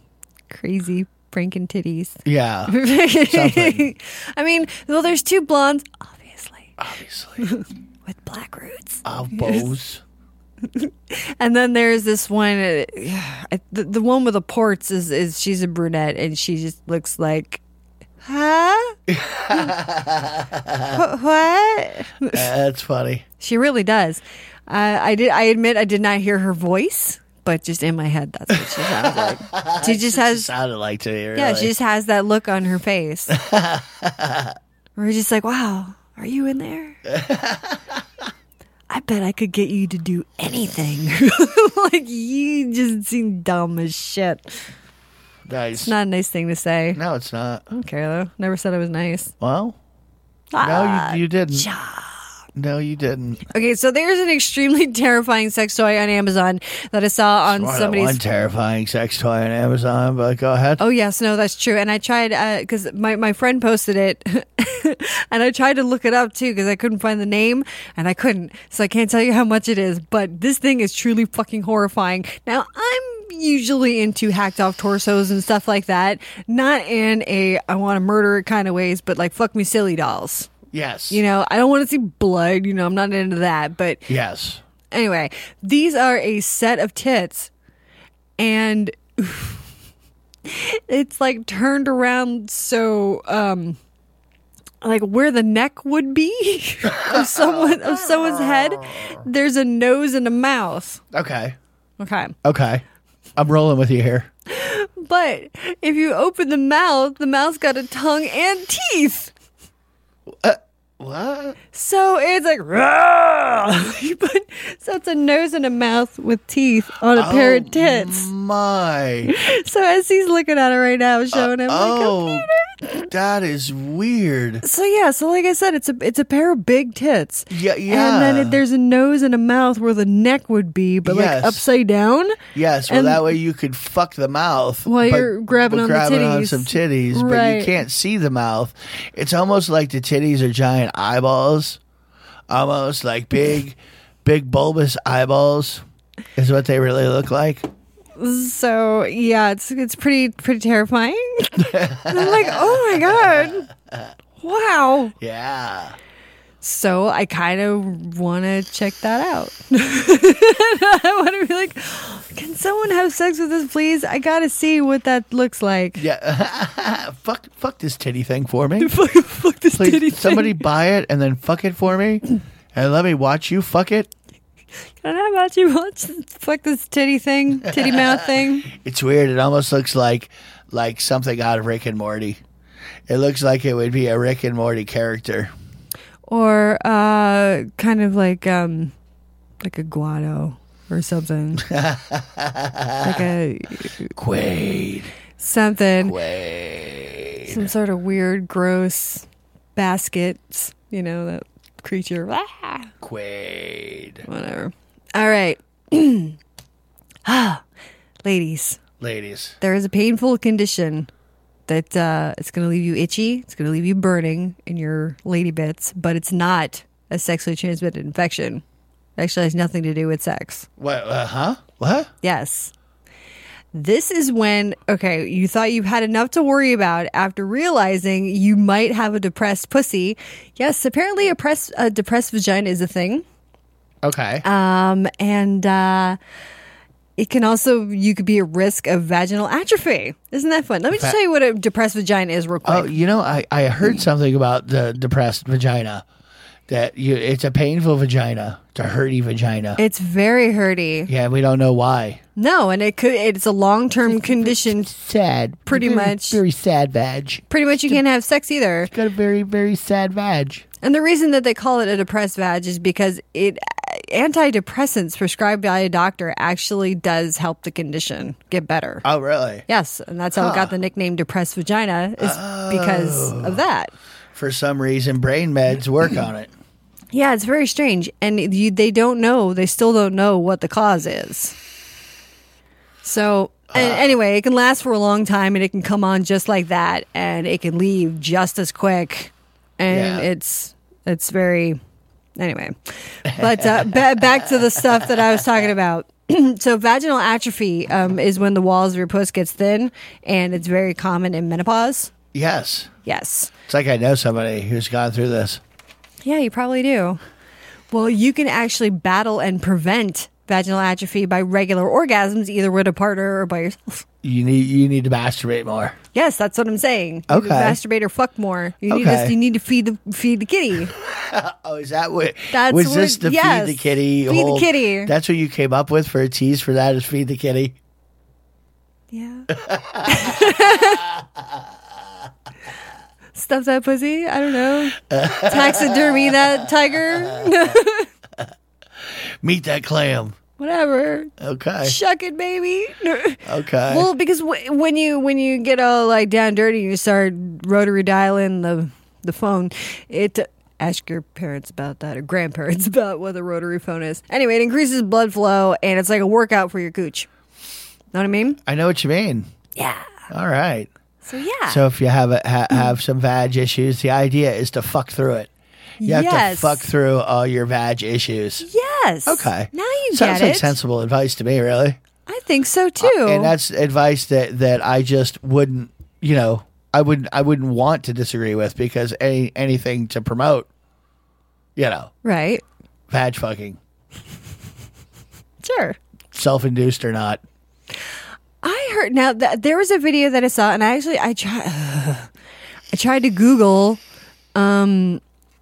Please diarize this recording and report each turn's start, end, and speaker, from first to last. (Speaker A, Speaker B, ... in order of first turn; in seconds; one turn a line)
Speaker A: 0.5-6.8
Speaker B: 2.2-3.9
Speaker B: 6.8-7.5
Speaker A: 7.4-9.7
Speaker B: 9.1-10.0
Speaker A: 10.7-17.6
Speaker A: 18.2-19.0
Speaker B: 19.1-21.0
Speaker A: 20.9-22.5
Speaker B: 22.3-23.2
Speaker A: 23.4-30.5
Speaker B: 28.5-31.7
Speaker A: 31.4-33.4
Speaker B: 33.3-34.6
Speaker A: 35.0-37.0
Speaker B: 37.1-38.0
Speaker A: 38.9-44.5
Speaker B: 45.5-45.9
Speaker A: 45.8-47.0
Speaker B: 46.9-47.7
Speaker A: 47.7-49.3
Speaker B: 49.4-49.8
Speaker A: 50.5-52.2
Speaker B: 50.6-51.7
Speaker B: 52.5-53.5
Speaker A: 53.5-58.2
Speaker B: 57.5-60.8
Speaker A: 60.8-80.5
Speaker B: 80.7-81.2
Speaker A: 81.1-84.1
Speaker B: 84.1-84.6
Speaker A: 84.9-87.5
Speaker A: 88.4-89.6
Speaker A: 90.5-93.8
Speaker A: 94.8-101.0
Speaker B: 96.9-99.2
Speaker B: 101.1-101.6
Speaker A: 102.0-102.3
Speaker B: 102.4-102.8
Speaker B: 103.4-104.3
Speaker A: 104.5-109.3
Speaker B: 110.3-111.6
Speaker A: 111.7-118.3
Speaker B: 117.1-119.3
Speaker A: 119.3-123.1
Speaker B: 121.3-122.5
Speaker B: 123.1-124.6
Speaker A: 124.6-133.3
Speaker B: 127.5-128.6
Speaker B: 131.0-131.7
Speaker B: 132.5-141.8
Speaker A: 134.8-137.7
Speaker B: 142.5-145.8
Speaker B: 146.4-147.7
Speaker A: 148.2-153.7
Speaker B: 151.6-154.1
Speaker A: 154.4-155.1
Speaker B: 155.2-156.0
Speaker A: 156.6-166.0
Speaker B: 166.0-168.9
Speaker A: 168.8-170.7
Speaker B: 169.7-174.1
Speaker A: 175.0-178.7
Speaker B: 177.7-182.4
Speaker B: 183.1-185.5
Speaker A: 186.3-188.9
Speaker A: 189.6-191.7
Speaker B: 191.6-193.3
Speaker A: 193.0-194.1
Speaker B: 194.1-195.1
Speaker A: 195.4-196.2
Speaker B: 196.0-197.7
Speaker A: 197.5-202.9
Speaker B: 203.0-204.2
Speaker A: 204.2-206.4
Speaker A: 207.3-207.6
Speaker A: 208.2-208.8
Speaker B: 209.0-209.6
Speaker A: 209.6-211.1
Speaker A: 211.7-218.6
Speaker A: 219.2-220.7
Speaker B: 220.8-222.1
Speaker A: 222.2-222.7
Speaker A: 223.7-233.2
Speaker B: 234.0-234.4
Speaker A: 234.4-236.2
Speaker A: 237.2-243.0
Speaker B: 242.6-246.0
Speaker B: 246.7-249.8
Speaker A: 249.8-251.1
Speaker B: 251.1-252.2
Speaker A: 252.4-254.9
Speaker B: 254.1-258.0
Speaker A: 255.7-256.4
Speaker A: 257.5-258.9
Speaker B: 258.9-260.6
Speaker A: 260.8-269.0
Speaker B: 269.0-269.6
Speaker A: 269.7-273.9
Speaker B: 270.4-270.7
Speaker B: 272.2-273.6
Speaker B: 274.3-276.5
Speaker A: 277.1-281.6
Speaker A: 283.0-291.8
Speaker B: 283.7-284.1
Speaker B: 289.9-290.3
Speaker A: 292.4-302.1
Speaker B: 293.3-295.4
Speaker B: 302.3-302.9
Speaker A: 303.0-303.5
Speaker B: 303.7-305.6
Speaker A: 306.2-307.2
Speaker A: 307.9-314.0
Speaker B: 314.2-316.0
Speaker A: 316.1-320.9
Speaker B: 317.3-317.8
Speaker B: 318.9-319.4
Speaker B: 321.0-327.8
Speaker A: 322.5-325.1
Speaker A: 329.1-329.5
Speaker B: 329.5-331.6
Speaker A: 330.1-331.1
Speaker A: 333.3-338.1
Speaker B: 335.0-337.6
Speaker B: 339.4-340.4
Speaker A: 340.6-357.3
Speaker B: 341.4-342.0
Speaker B: 343.5-344.1
Speaker A: 358.1-358.6
Speaker B: 358.6-359.5
Speaker A: 359.8-360.2
Speaker B: 360.3-360.9
Speaker A: 361.2-361.8
Speaker B: 361.7-365.5
Speaker A: 366.0-366.9
Speaker B: 366.0-368.7
Speaker A: 368.6-370.8
Speaker B: 369.3-372.0
Speaker A: 372.3-373.5
Speaker B: 373.0-380.7
Speaker B: 381.8-382.1
Speaker A: 382.2-382.6
Speaker B: 383.1-383.8
Speaker A: 385.6-386.0
Speaker B: 386.3-387.4
Speaker A: 388.6-392.3
Speaker A: 392.9-394.0
Speaker A: 394.6-395.2